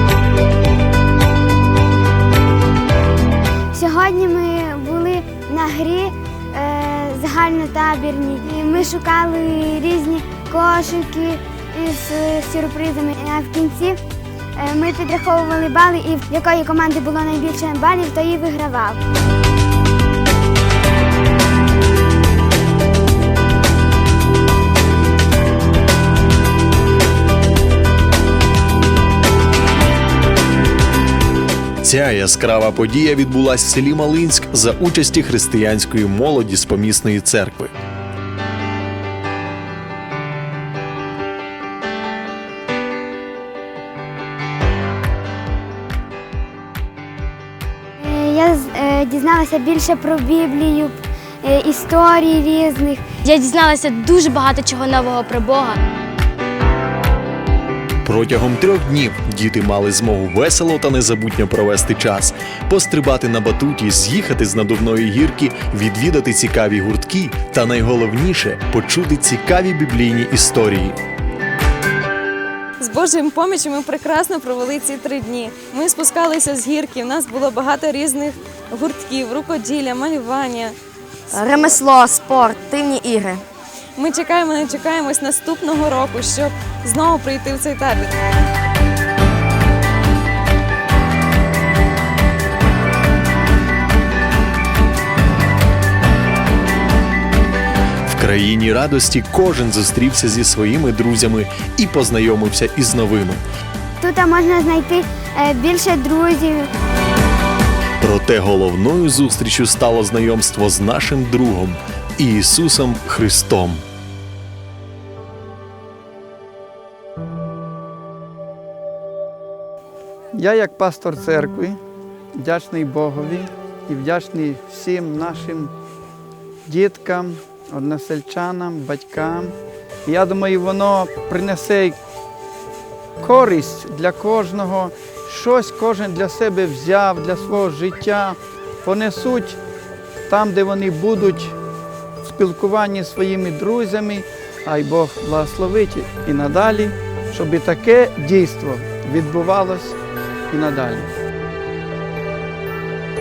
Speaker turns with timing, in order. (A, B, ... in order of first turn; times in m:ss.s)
0:03.7-0:14.0 A
0:14.6-0:19.0 A
0:31.8-0:37.7 B
0:48.0-0:53.1 A
0:53.2-0:55.8 C
0:58.0-1:11.0 B
1:12.8-1:20.8 D
1:21.3-1:23.4 E
1:24.0-1:28.1 D
1:38.0-1:43.4 B
1:44.0-1:46.7 A
1:48.0-1:53.8 B
2:00.3-2:01.8 F
2:02.4-2:05.7 F
2:06.6-2:12.0 F
2:13.2-2:19.6 F
2:20.3-2:21.6 F
2:22.2-2:30.0 F
2:30.5-2:31.1 F